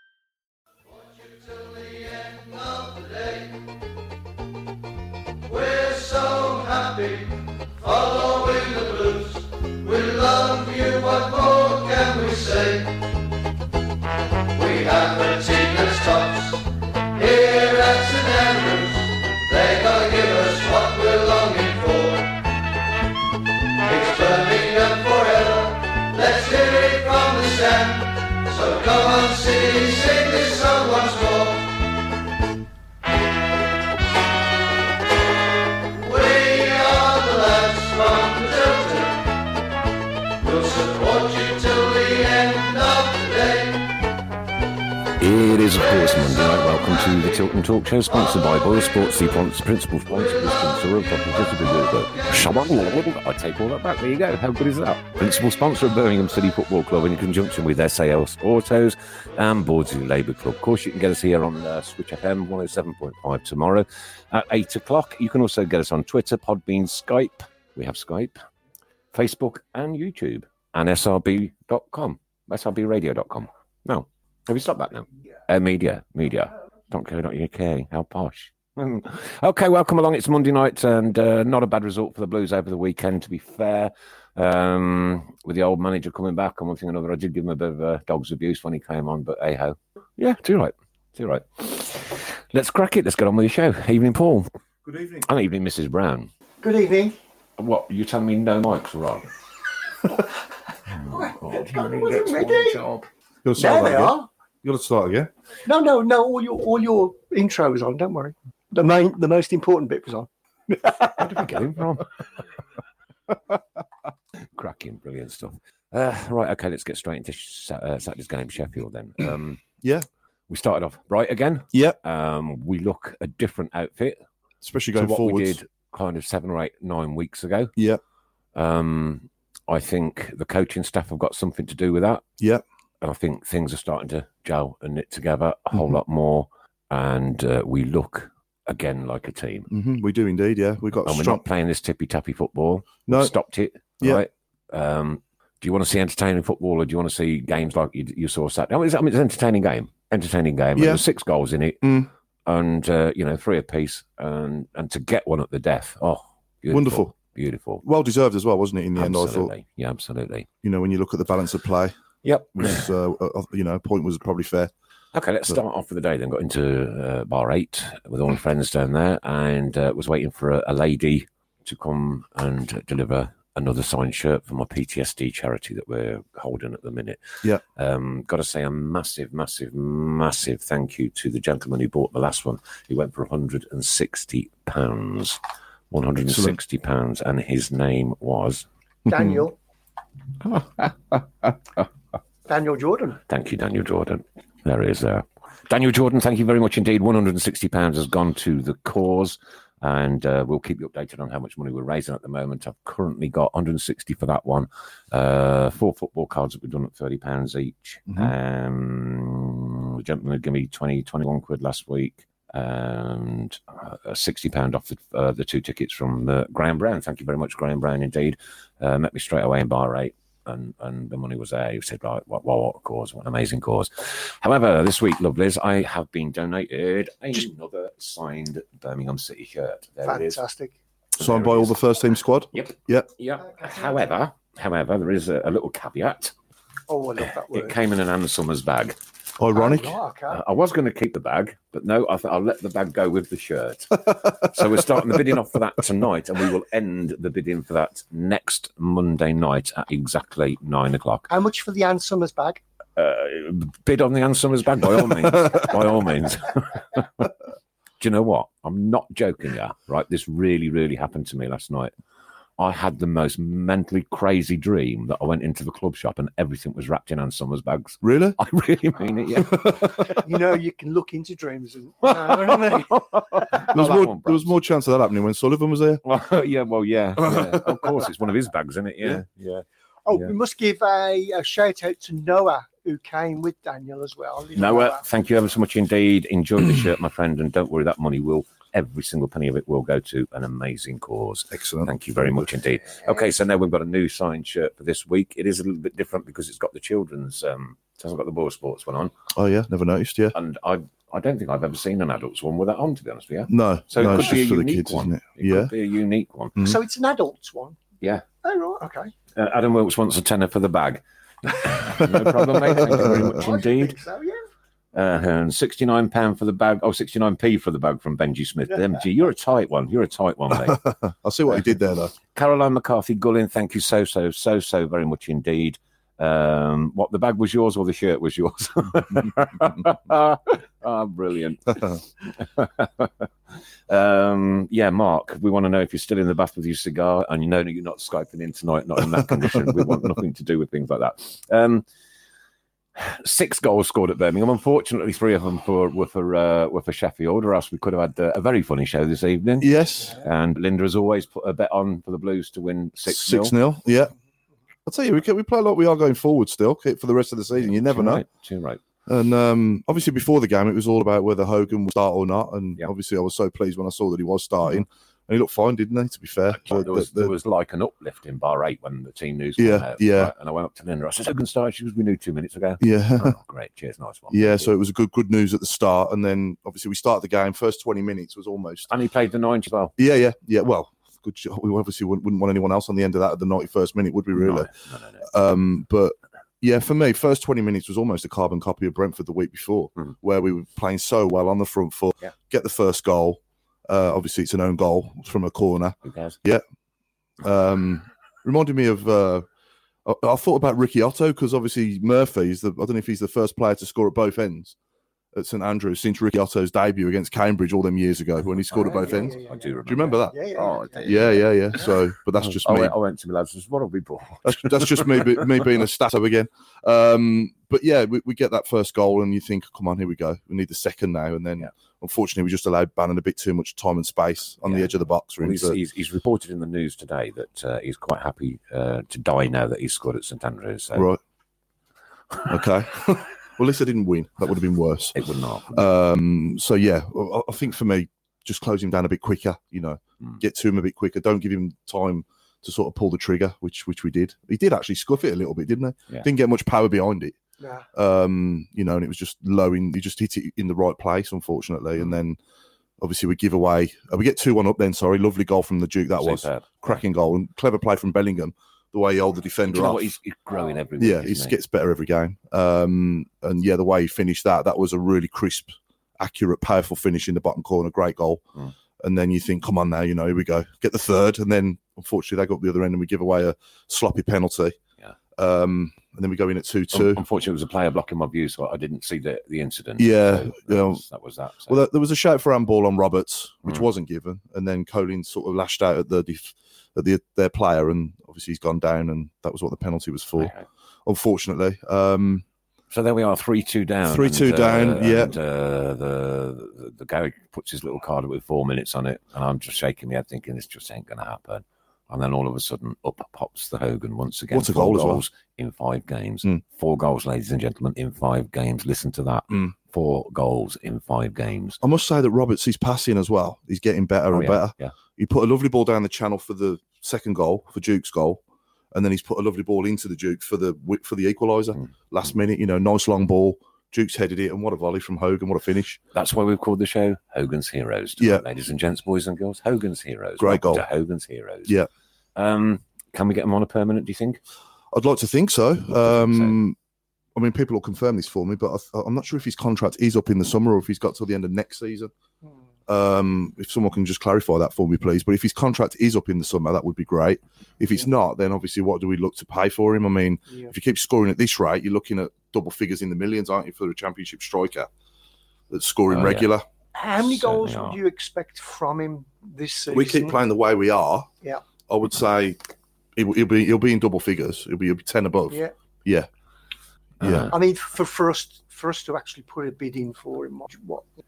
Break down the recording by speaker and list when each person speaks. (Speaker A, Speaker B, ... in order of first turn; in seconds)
Speaker A: 0.9-3.6, 5.5-13.0, 14.5-22.4, 23.8-31.8, 35.9-39.3, 40.4-43.9
Speaker B: 45.2-68.4, 69.1-94.5, 95.3-96.3, 97.6-99.3, 100.9-103.1, 111.0-112.1, 114.5-119.6, 120.5-124.2, 125.0-127.8, 128.6-132.2, 133.0-139.7, 141.0-157.8, 159.0-160.5, 162.2-162.8, 165.1-188.7, 193.3-230.4, 231.2-231.7, 232.5-236.3, 237.2-239.0, 240.3-251.3, 253.0-257.3, 258.0-261.9, 262.6-269.9, 272.1-274.7, 276.0-280.3, 284.6-299.1, 300.3-306.7, 309.4-314.0, 314.9-320.9, 322.3-333.3, 333.9-341.9, 343.0-353.6, 357.6-358.8, 366.5-374.7, 378.9-379.9, 384.4-385.3, 396.0-396.4, 409.1-411.8, 412.4-415.4, 424.7-431.1, 435.1-435.7, 456.2-456.8, 459.7-461.6, 476.9-481.8, 490.4-490.7, 492.9-511.8, 514.3-514.9, 526.1-531.8, 532.4-534.4, 536.1-536.5, 556.1-556.5, 557.2-558.0, 567.2-567.5
Speaker C: 94.8-95.3, 103.4-105.3, 124.6-125.6, 139.7-141.4, 150.8-151.0, 151.8-152.1, 156.7-157.1, 157.8-159.5, 160.6-161.9, 162.5-164.7, 186.3-186.6, 189.1-189.4, 231.2-233.1, 239.4-240.0, 268.0-268.4, 269.4-270.1, 273.7-276.0, 277.2-277.6, 291.5-292.5, 299.3-300.4, 303.5-305.7, 320.5-322.1, 349.6-350.2, 353.1-354.1, 354.9-358.2, 359.1-367.3, 369.6-370.3, 372.8-373.3, 374.3-378.9, 380.0-384.7, 385.2-396.6, 397.4-399.5, 400.1-404.8, 405.3-410.4, 411.0-412.9, 414.4-425.8, 432.5-435.2, 435.7-447.4, 447.9-452.4, 453.0-460.1, 461.0-468.4, 469.0-474.8, 475.4-477.2, 480.0-481.0, 481.7-490.5, 491.1-492.4, 494.1-495.4, 504.5-505.2, 511.8-518.4, 518.9-526.0, 528.2-528.4, 530.4-530.9, 534.9-536.8, 537.4-542.1, 542.9-554.9, 555.7-556.6, 559.9-561.3, 561.9-566.3, 567.2-567.5
Speaker D: 96.6-97.2, 101.1-102.9, 103.6-104.3, 105.7-111.1, 189.1-189.6, 192.5-193.2, 230.1-230.7, 236.9-237.8, 239.5-240.4, 251.3-252.6, 270.0-273.7, 280.1-285.0, 306.6-307.8, 308.4-309.1, 312.8-314.4, 408.7-409.7, 410.3-411.5, 447.6-447.9, 557.0-560.4, 567.5-571.0